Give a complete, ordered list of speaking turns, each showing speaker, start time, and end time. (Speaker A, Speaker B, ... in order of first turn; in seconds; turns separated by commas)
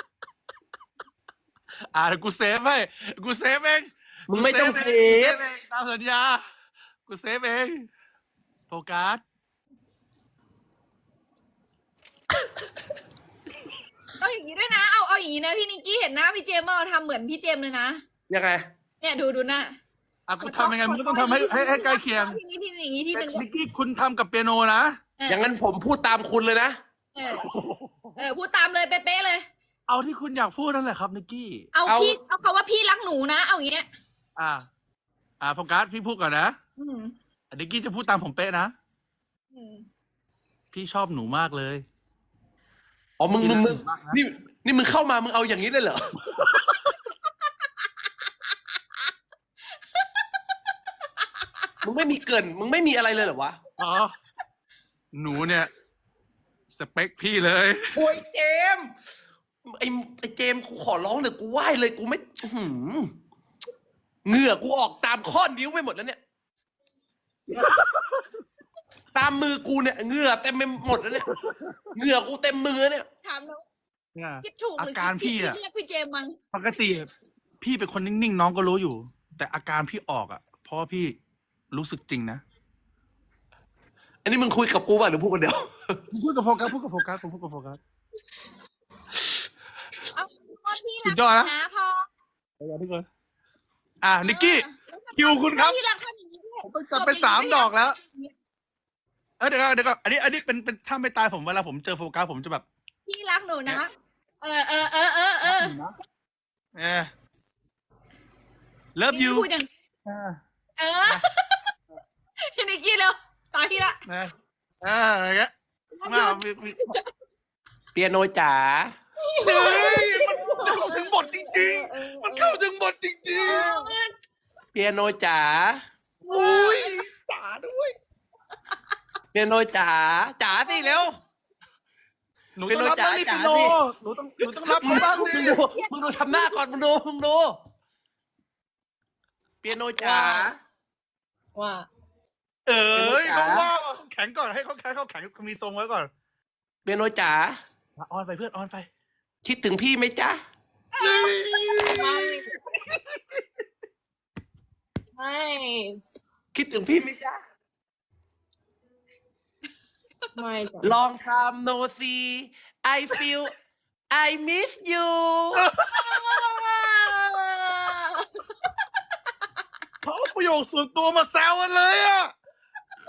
Speaker A: 1.9-6.4, Speaker B: 4.3-5.4, Speaker A: 7.0-7.9, Speaker A: 8.7-9.2, Speaker C: 14.2-18.0, Speaker B: 18.3-18.6, Speaker C: 19.0-19.7, Speaker A: 20.3-22.4, Speaker C: 20.4-23.4, Speaker A: 23.1-25.0, Speaker C: 25.2-25.5, Speaker B: 25.3-26.8, Speaker C: 27.1-27.4, Speaker A: 27.3-28.3, Speaker C: 28.2-29.5, Speaker A: 29.9-31.7, Speaker C: 31.7-33.9, Speaker B: 31.9-32.2, Speaker A: 34.4-34.7, Speaker A: 35.4-36.5, Speaker C: 36.8-37.1, Speaker A: 37.5-38.7, Speaker C: 39.5-39.9, Speaker A: 40.7-41.8, Speaker B: 43.2-46.1, Speaker A: 43.4-44.2, Speaker A: 46.3-46.7, Speaker B: 51.8-53.6, Speaker A: 53.8-54.1, Speaker A: 55.1-55.7, Speaker A: 56.7-58.0, Speaker B: 57.9-58.9, Speaker B: 59.7-63.1, Speaker B: 64.2-66.2, Speaker A: 67.5-68.2, Speaker B: 69.1-71.3, Speaker A: 71.1-71.8, Speaker B: 71.9-73.1, Speaker C: 73.2-73.6, Speaker A: 74.1-75.6, Speaker C: 74.4-76.3, Speaker A: 76.5-77.1, Speaker A: 77.6-81.2, Speaker A: 81.7-82.4, Speaker B: 84.2-86.0, Speaker A: 86.1-87.8, Speaker C: 90.1-92.0, Speaker A: 91.0-91.5, Speaker A: 92.6-93.0, Speaker A: 94.0-95.8, Speaker C: 94.2-98.3, Speaker A: 96.6-98.0, Speaker A: 99.4-102.6, Speaker C: 103.0-103.9, Speaker C: 104.4-105.7, Speaker A: 105.4-105.9, Speaker A: 106.8-107.1, Speaker A: 109.0-109.5, Speaker C: 109.1-109.7, Speaker A: 110.0-110.4, Speaker C: 110.8-111.7, Speaker C: 112.4-114.0, Speaker A: 114.1-115.5, Speaker C: 115.9-117.0, Speaker A: 116.0-117.0, Speaker B: 117.9-118.9, Speaker D: 119.2-120.8, Speaker A: 119.4-123.6, Speaker C: 119.6-122.6, Speaker C: 123.3-123.9, Speaker D: 123.5-124.1, Speaker B: 124.7-125.8, Speaker A: 126.2-128.0, Speaker C: 126.3-126.9, Speaker B: 129.3-131.1, Speaker C: 130.5-131.1, Speaker A: 132.6-135.6, Speaker B: 132.7-133.8, Speaker B: 134.4-137.6, Speaker C: 134.9-136.7, Speaker B: 139.6-140.5, Speaker D: 140.0-140.5, Speaker D: 141.5-141.9, Speaker A: 142.7-146.1, Speaker B: 142.9-143.7, Speaker B: 146.8-147.6, Speaker A: 148.0-148.9, Speaker B: 149.4-150.4, Speaker C: 151.0-151.6, Speaker A: 151.0-153.4, Speaker D: 151.9-152.5, Speaker D: 155.2-156.0, Speaker B: 156.5-157.4, Speaker D: 160.3-160.9, Speaker B: 160.8-163.5, Speaker B: 164.1-165.7, Speaker A: 165.6-166.1, Speaker C: 165.8-168.4, Speaker A: 170.0-172.3